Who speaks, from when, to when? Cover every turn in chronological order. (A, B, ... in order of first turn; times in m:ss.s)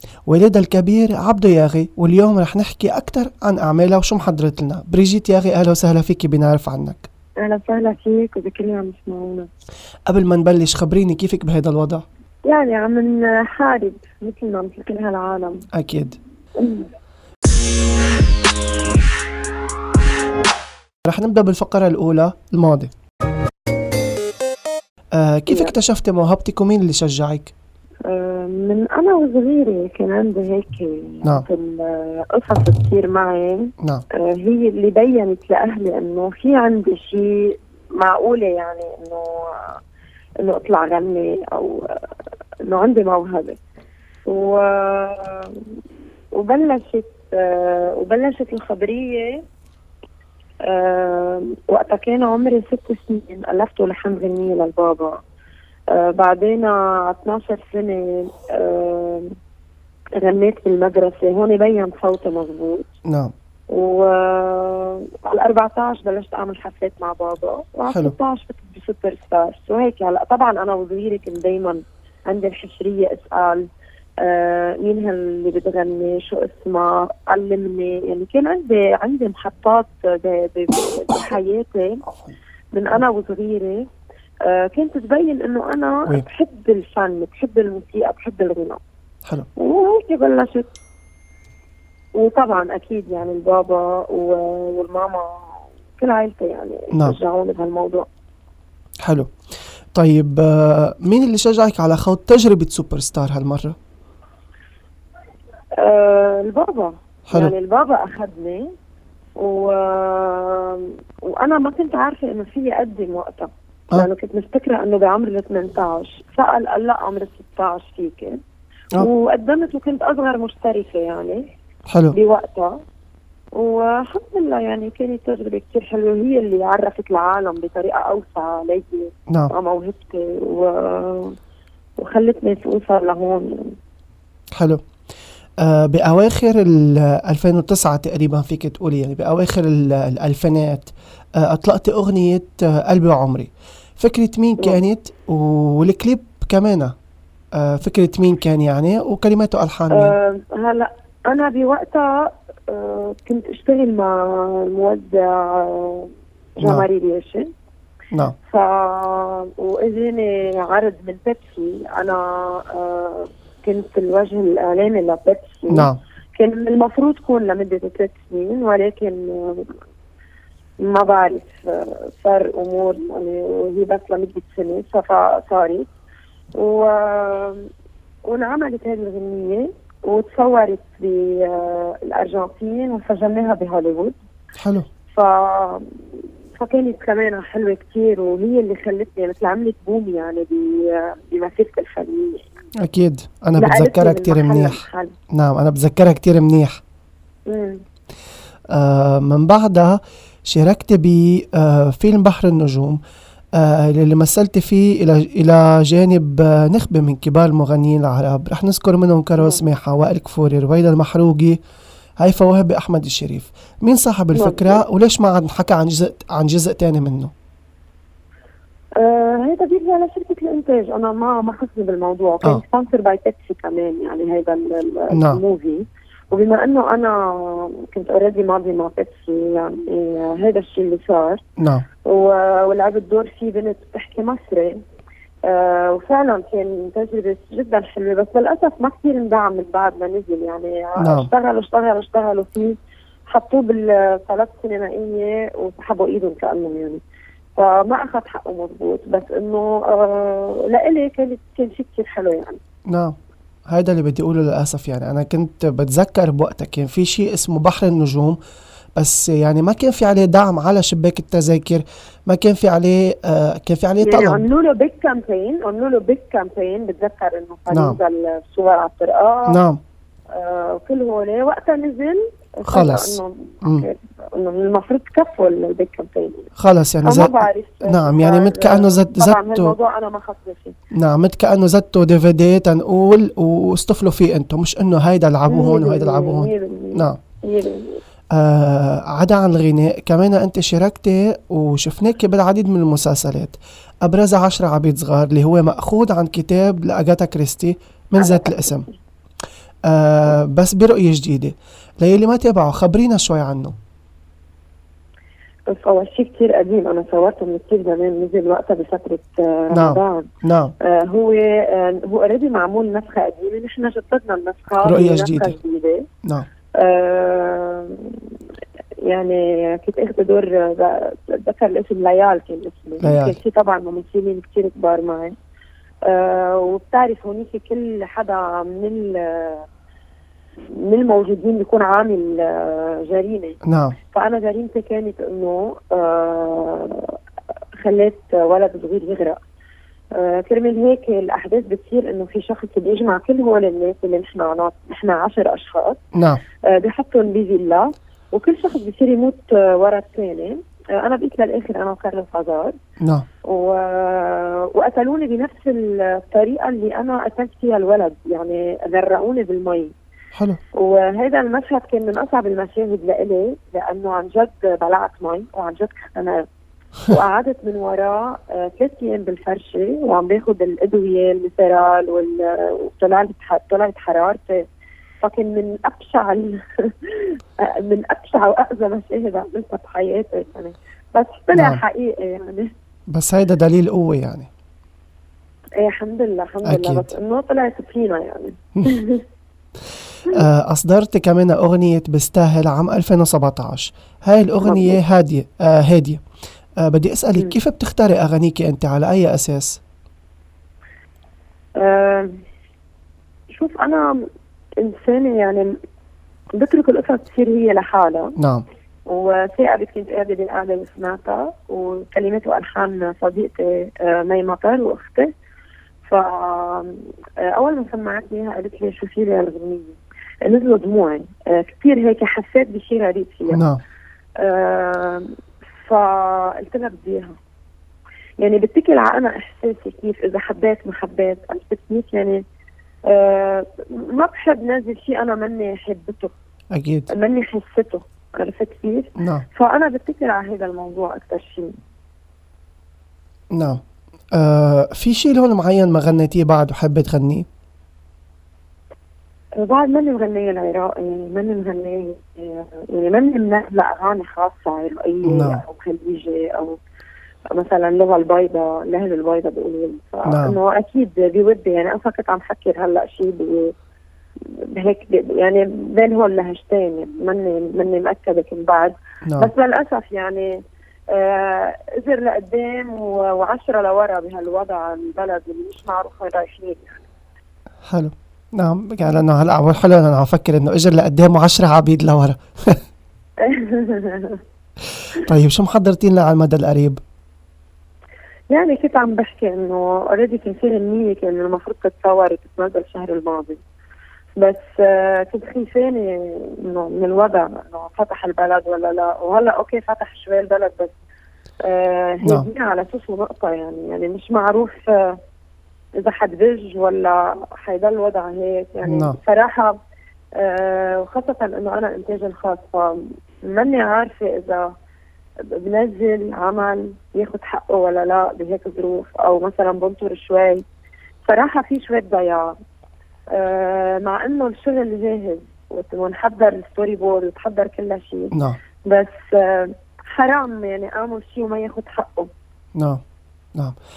0:00.2-0:07.1 A
0:07.4-0:09.5 B
0:10.1-0:12.0 A
0:12.4-0:15.6 B
0:15.7-0:16.2 A
0:16.6-0:16.9 B
0:21.0-0:22.9 A
0:25.1-0:27.5 A
0:28.0-0:39.8 B
0:40.4-0:42.0 B
0:42.6-0:43.6 B
0:44.2-0:45.6 B
0:46.3-0:49.4 B
0:50.6-0:55.2 B
0:55.9-0:59.4 B
1:00.1-1:02.9 B
1:03.0-1:03.3 A
1:03.7-1:13.7 B
1:14.2-1:22.0 B
1:22.7-1:23.9 B
1:24.4-1:28.8 B
1:29.6-1:30.7 B
1:32.1-1:38.0 B
1:36.9-1:37.2 A
1:39.0-1:39.3 A
1:39.9-1:43.8 A
1:45.8-1:48.7 B
1:47.3-1:47.5 A
1:49.4-1:58.4 B
1:59.0-2:01.5 B
2:01.9-2:02.1 A
2:02.1-2:02.8 B
2:03.5-2:11.4 B
2:12.0-2:13.8 B
2:14.5-2:14.8 A
2:15.6-2:26.9 A
2:27.5-2:30.1 A
2:29.9-2:37.5 B
2:38.5-2:49.8 B
2:45.7-2:46.0 A
2:50.8-2:55.9 B
2:56.6-2:57.7 B
2:58.2-3:04.2 B
3:04.6-3:04.8 A
3:05.1-3:05.9 B
3:06.6-3:12.4 B
3:12.8-3:16.8 A
3:13.6-3:15.1 B
3:17.5-3:17.8 B
3:18.7-3:23.0 A
3:23.5-3:31.6 A
3:32.2-3:37.3 A
3:34.3-3:34.8 B
3:39.0-3:51.4 B
3:45.1-3:45.4 A
3:51.6-3:51.8 A
3:52.0-3:54.8 B
3:55.4-4:07.0 B
4:01.0-4:01.3 A
4:07.6-4:12.6 B
4:12.9-4:13.2 A
4:13.7-4:18.4 A
4:19.0-4:24.4 A
4:24.0-4:29.6 B
4:27.7-4:28.0 A
4:29.5-4:29.8 A
4:30.3-4:36.5 B
4:32.7-4:33.9 A
4:36.6-4:39.8 A
4:37.0-4:40.8 B
4:40.9-4:47.2 A
4:45.5-4:48.0 B
4:48.3-4:58.8 A
4:58.2-4:58.9 B
4:59.8-5:03.7 A
5:05.7-5:10.3 B
5:09.7-5:10.7 A
5:10.8-5:16.1 B
5:14.8-5:15.6 A
5:16.7-5:18.3 B
5:19.0-5:25.3 B
5:23.0-5:23.4 A
5:26.0-5:29.6 B
5:30.7-5:33.6 B
5:33.6-5:34.0 A
5:34.1-5:37.2 B
5:37.8-5:39.4 B
5:40.1-5:46.0 B
5:46.1-5:46.4 A
5:46.6-5:52.8 B
5:53.0-5:53.2 A
5:53.4-5:59.9 B
6:00.7-6:06.5 B
6:07.1-6:14.6 B
6:15.2-6:22.7 B
6:21.5-6:21.8 A
6:23.1-6:24.5 A
6:25.8-6:29.2 B
6:26.6-6:27.0 A
6:30.3-6:36.2 A
6:34.6-6:35.0 B
6:36.8-6:39.8 A
6:41.8-6:42.4 B
6:43.5-6:44.2 B
6:44.8-6:45.7 B
6:46.5-6:48.4 B
6:48.4-6:48.6 A
6:49.0-6:55.3 B
6:56.0-7:03.6 B
7:03.5-7:03.8 A
7:04.4-7:05.3 B
7:05.8-7:07.4 B
7:08.4-7:12.4 B
7:13.0-7:16.3 B
7:16.7-7:17.1 A
7:17.1-7:21.7 B
7:19.2-7:19.4 A
7:23.5-7:23.8 A
7:24.3-7:27.5 A
7:29.6-7:36.8 B
7:35.3-7:35.6 A
7:37.5-7:43.7 B
7:40.2-7:40.6 A
7:44.4-7:50.6 B
7:49.2-7:49.5 A
7:51.1-7:57.0 B
7:57.8-8:02.8 A
8:03.4-8:04.4 B
8:05.1-8:07.0 A
8:08.5-8:13.6 B
8:14.4-8:20.9 B
8:21.6-8:25.2 B
8:26.0-8:29.8 B
8:28.8-8:29.2 A
8:30.4-8:34.7 B
8:35.4-8:40.6 B
8:41.2-8:42.6 B
8:43.3-8:52.3 B
8:48.3-8:48.6 A
8:52.8-8:53.0 A